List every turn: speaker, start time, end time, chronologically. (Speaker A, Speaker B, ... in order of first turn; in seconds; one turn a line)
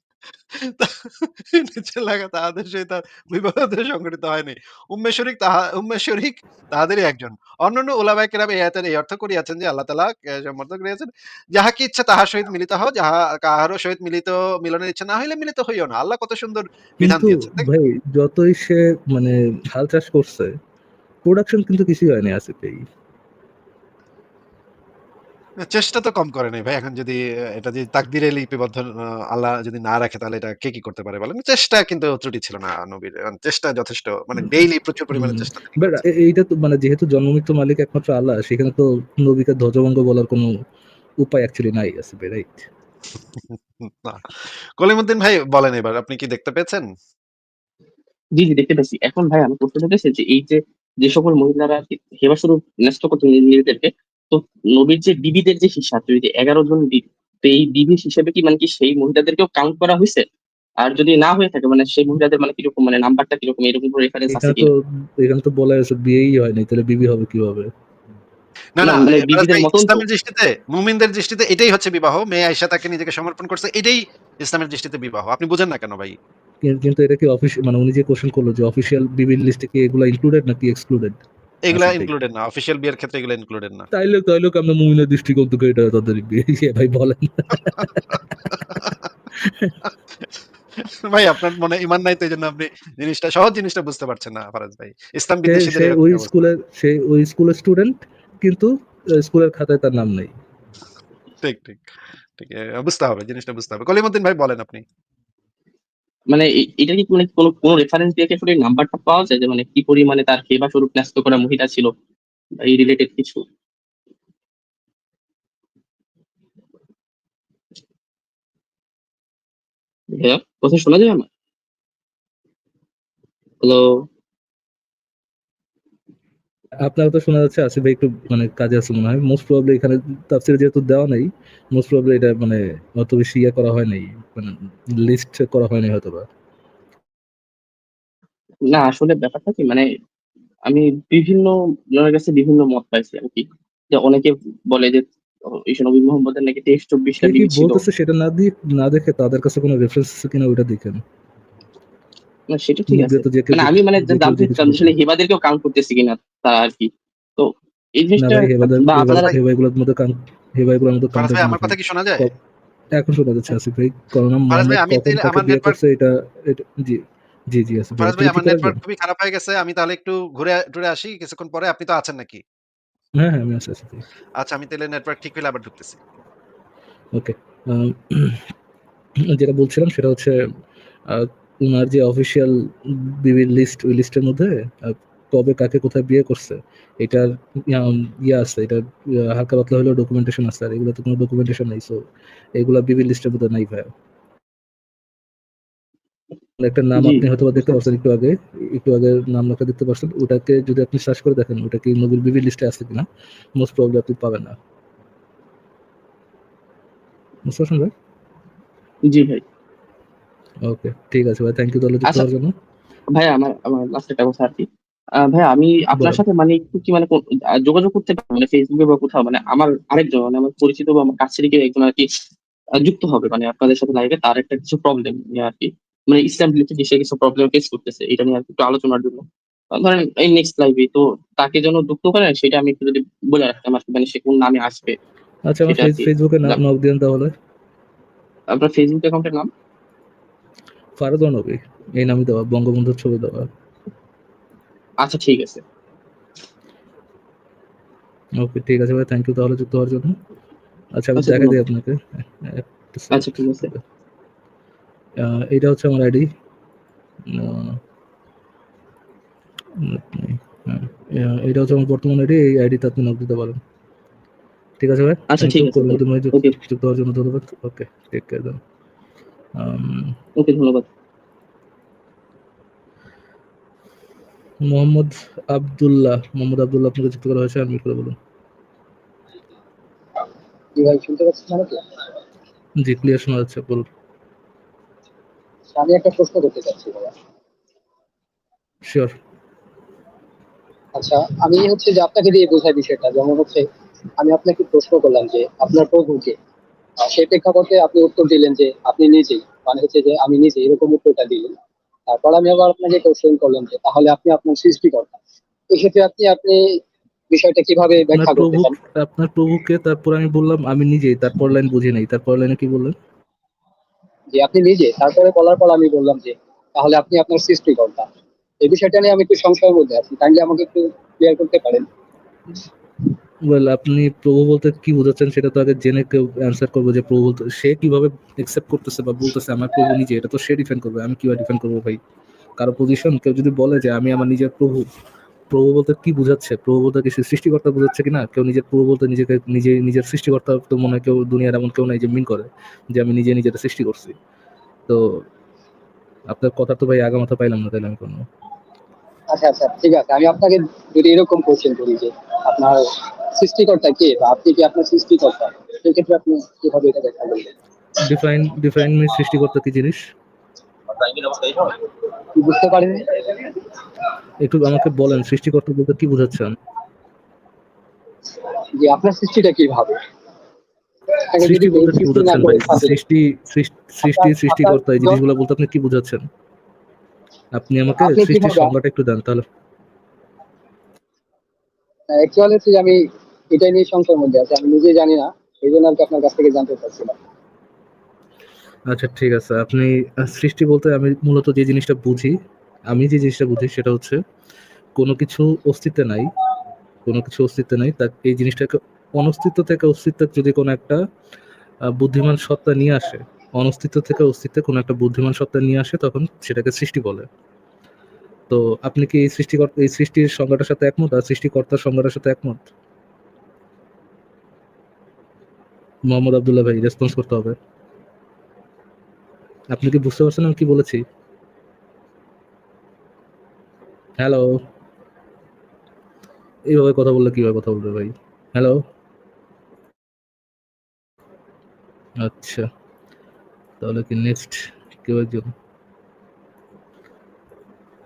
Speaker A: 0.6-17.7
Speaker B: 17.0-20.5
Speaker B: 21.2-22.8
Speaker A: 25.6-36.0
Speaker B: 35.1-40.5
Speaker B: 41.2-42.7
Speaker A: 43.5-44.2
Speaker A: 44.8-46.9
Speaker C: 48.4-60.2
Speaker C: 60.8-64.7
Speaker B: 64.3-67.7
Speaker A: 68.8-76.2
Speaker C: 68.8-70.0
Speaker B: 76.6-81.2
Speaker A: 81.7-83.9
Speaker B: 81.7-82.1
Speaker B: 83.9-88.3
Speaker B: 89.5-89.7
Speaker A: 91.0-96.3
Speaker B: 95.5-98.7
Speaker B: 99.2-100.3
Speaker A: 101.4-101.8
Speaker A: 102.4-104.8
Speaker C: 106.3-111.9
Speaker C: 112.6-113.4
Speaker C: 120.1-121.3
Speaker C: 123.6-123.9
Speaker B: 126.9-136.3
Speaker C: 138.7-139.8
Speaker C: 140.7-145.0
Speaker C: 145.5-147.8
Speaker B: 147.2-151.0
Speaker C: 152.5-159.3
Speaker B: 152.9-154.9
Speaker B: 158.2-162.3
Speaker A: 161.2-162.3
Speaker B: 162.9-167.0
Speaker A: 164.5-165.8
Speaker B: 167.5-168.8
Speaker A: 168.0-172.4
Speaker B: 173.2-174.0
Speaker A: 174.4-176.0
Speaker B: 177.1-178.4
Speaker B: 179.3-180.3
Speaker B: 181.1-182.5
Speaker B: 183.2-192.0
Speaker B: 192.6-193.9
Speaker B: 196.6-204.6
Speaker C: 197.0-197.3
Speaker B: 207.5-207.9
Speaker C: 209.1-209.4
Speaker B: 210.7-212.5
Speaker C: 213.2-214.6
Speaker C: 215.3-222.1
Speaker B: 215.9-216.2
Speaker C: 222.8-234.9
Speaker B: 235.5-237.3
Speaker C: 235.7-236.6
Speaker C: 238.5-239.5
Speaker B: 241.0-243.4
Speaker C: 245.0-245.6
Speaker B: 248.4-250.1
Speaker B: 251.0-253.8
Speaker C: 251.2-251.6
Speaker C: 253.1-253.7
Speaker B: 255.2-256.2
Speaker B: 257.3-257.8
Speaker B: 259.8-263.6
Speaker B: 264.8-268.6
Speaker C: 265.3-266.6
Speaker B: 269.6-270.1
Speaker C: 270.4-270.9
Speaker B: 274.6-278.1
Speaker D: 280.8-281.8
Speaker B: 282.8-283.9
Speaker D: 285.7-287.1
Speaker B: 288.9-289.1
Speaker D: 290.9-293.6
Speaker D: 294.2-296.3
Speaker D: 297.0-301.5
Speaker D: 302.1-305.1
Speaker D: 305.7-306.6
Speaker D: 307.3-308.7
Speaker B: 308.1-312.9
Speaker D: 314.3-318.1
Speaker D: 318.6-321.9
Speaker B: 323.5-332.0
Speaker B: 332.6-334.9
Speaker B: 335.5-344.1
Speaker B: 344.9-345.2
Speaker B: 346.3-348.2
Speaker D: 349.3-352.8
Speaker D: 353.3-357.5
Speaker B: 358.0-360.0
Speaker D: 361.0-361.8
Speaker D: 362.4-363.5
Speaker B: 364.4-366.5
Speaker D: 368.8-369.9
Speaker D: 371.3-372.9
Speaker B: 371.4-376.2
Speaker D: 374.0-375.2
Speaker B: 377.6-379.4
Speaker D: 378.0-378.7
Speaker D: 382.1-383.0
Speaker D: 383.5-387.1
Speaker B: 388.9-392.3
Speaker B: 392.9-394.2
Speaker B: 395.0-396.3
Speaker B: 397.1-401.0
Speaker B: 401.9-407.2
Speaker B: 408.5-412.6
Speaker B: 416.1-417.6
Speaker B: 419.7-421.0
Speaker B: 424.2-424.5
Speaker B: 426.7-428.8
Speaker B: 432.2-432.6
Speaker B: 433.8-435.5